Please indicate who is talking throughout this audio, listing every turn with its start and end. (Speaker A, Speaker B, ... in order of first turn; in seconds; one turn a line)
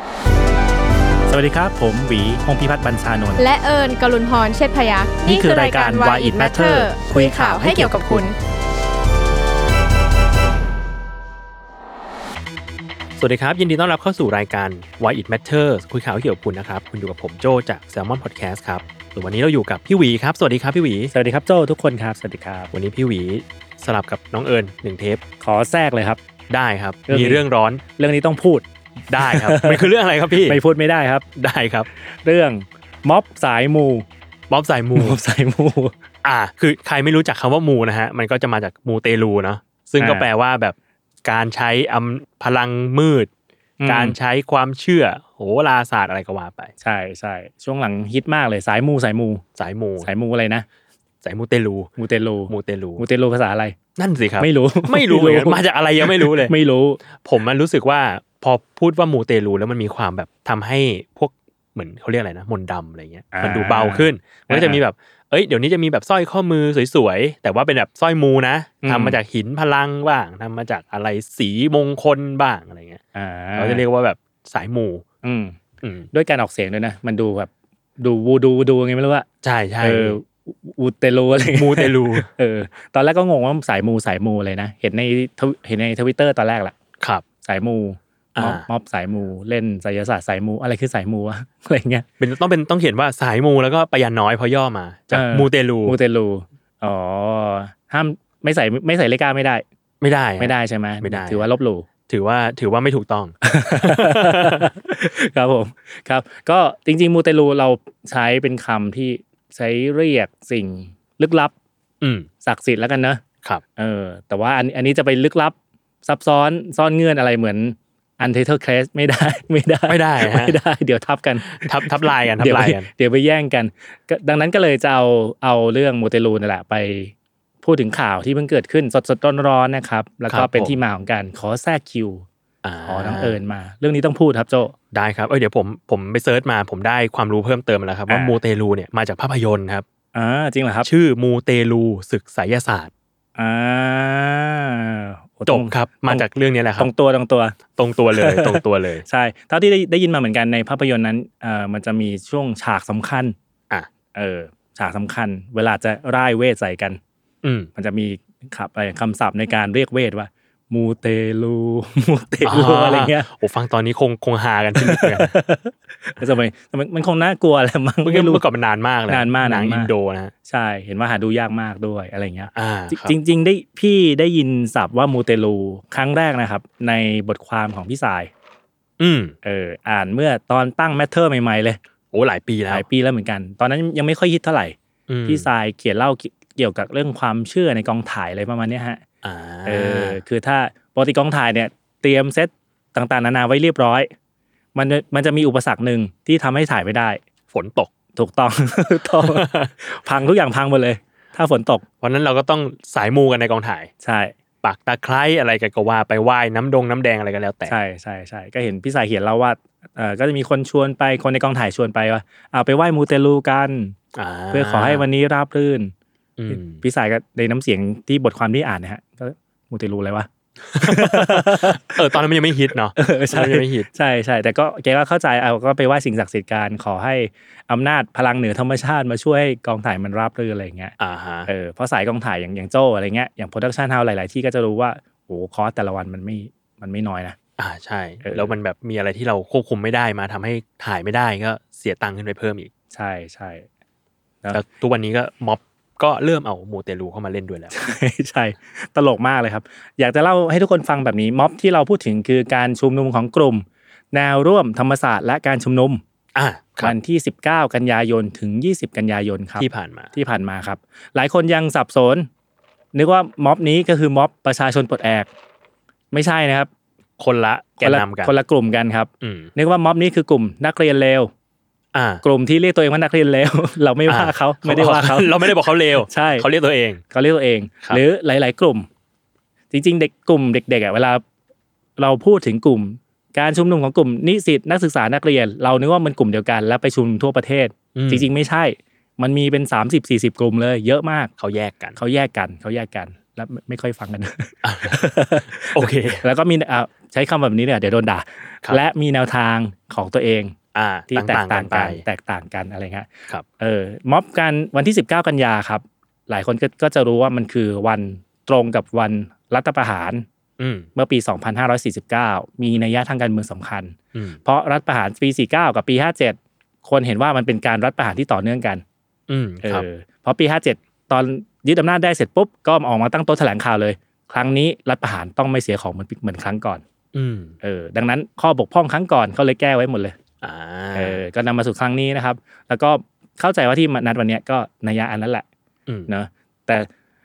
Speaker A: 1.3-3.4
Speaker B: 3.4-8.3
Speaker A: 5.2-8.3
Speaker C: 13.2-21.1
Speaker A: 21.1-22.7
Speaker C: 22.7-25.2
Speaker A: 25.4-26.2
Speaker C: 26.5-27.8
Speaker A: 27.1-27.4
Speaker A: 28.0-29.9
Speaker C: 29.1-30.6
Speaker A: 30.4-31.3
Speaker C: 31.4-31.9
Speaker A: 32.0-34.1
Speaker C: 34.5-35.2
Speaker A: 34.9-36.0
Speaker C: 36.2-43.3
Speaker A: 40.0-40.3
Speaker A: 43.8-44.2
Speaker C: 43.9-46.7
Speaker A: 46.8-49.4
Speaker C: 49.6-50.1
Speaker A: 50.0-50.7
Speaker C: 51.2-51.9
Speaker A: 52.0-53.8
Speaker C: 52.5-53.0
Speaker C: 54.0-56.5
Speaker A: 54.4-57.0
Speaker C: 57.1-73.0
Speaker A: 63.3-64.8
Speaker A: 68.8-69.2
Speaker A: 73.1-73.8
Speaker C: 73.6-75.0
Speaker A: 75.2-75.6
Speaker C: 75.8-76.1
Speaker A: 76.1-79.3
Speaker C: 79.4-80.2
Speaker A: 79.8-86.8
Speaker C: 81.5-82.3
Speaker C: 87.0-87.2
Speaker A: 87.4-92.1
Speaker C: 88.4-88.7
Speaker C: 92.2-96.0
Speaker A: 95.1-99.6
Speaker C: 100.0-101.5
Speaker A: 100.4-101.9
Speaker C: 102.1-104.7
Speaker A: 103.4-111.5
Speaker C: 112.0-112.3
Speaker A: 112.4-113.2
Speaker A: 113.8-132.3
Speaker C: 119.9-120.6
Speaker C: 121.5-122.9
Speaker C: 130.3-130.8
Speaker C: 132.6-133.4
Speaker A: 132.8-134.7
Speaker C: 134.9-139.8
Speaker A: 138.1-138.4
Speaker A: 140.1-140.9
Speaker C: 140.8-142.9
Speaker A: 143.4-146.3
Speaker C: 145.5-146.9
Speaker A: 146.8-147.6
Speaker C: 147.7-149.0
Speaker A: 148.1-153.3
Speaker A: 154.1-157.0
Speaker C: 157.4-157.7
Speaker A: 157.8-163.3
Speaker C: 162.5-165.3
Speaker A: 164.8-168.4
Speaker C: 168.1-170.3
Speaker A: 169.1-169.9
Speaker A: 170.4-178.3
Speaker C: 172.6-173.2
Speaker C: 179.0-179.4
Speaker A: 179.4-181.8
Speaker C: 182.1-182.9
Speaker A: 182.7-189.0
Speaker C: 185.1-185.5
Speaker C: 189.2-190.2
Speaker A: 189.7-194.1
Speaker A: 194.8-197.2
Speaker C: 197.5-197.9
Speaker A: 198.2-201.8
Speaker C: 199.2-199.7
Speaker C: 202.0-203.9
Speaker A: 204.0-204.3
Speaker C: 204.6-207.8
Speaker A: 207.7-214.0
Speaker C: 214.2-215.1
Speaker A: 214.5-215.9
Speaker C: 216.4-216.8
Speaker A: 216.5-222.1
Speaker C: 220.7-223.9
Speaker A: 223.0-230.9
Speaker C: 231.0-231.5
Speaker A: 231.5-237.4
Speaker C: 237.6-242.7
Speaker A: 238.2-238.5
Speaker A: 242.9-243.7
Speaker C: 244.5-247.7
Speaker A: 247.7-256.0
Speaker C: 256.4-256.9
Speaker A: 256.8-262.3
Speaker C: 259.6-260.1
Speaker A: 262.9-265.3
Speaker A: 266.1-266.7
Speaker C: 267.2-268.3
Speaker A: 267.8-271.3
Speaker C: 269.2-269.5
Speaker C: 271.9-272.2
Speaker A: 272.2-276.5
Speaker C: 274.1-277.0
Speaker A: 277.1-278.9
Speaker A: 279.7-281.2
Speaker A: 282.0-291.3
Speaker C: 287.9-288.3
Speaker C: 291.4-292.0
Speaker A: 292.0-300.6
Speaker C: 294.6-295.0
Speaker C: 295.6-296.2
Speaker C: 300.7-302.0
Speaker A: 301.1-310.2
Speaker C: 310.6-310.9
Speaker A: 310.9-318.8
Speaker C: 314.1-314.4
Speaker C: 319.3-319.9
Speaker A: 319.6-326.8
Speaker C: 327.1-327.6
Speaker A: 327.6-330.1
Speaker C: 330.4-331.2
Speaker A: 330.9-335.5
Speaker A: 336.1-336.9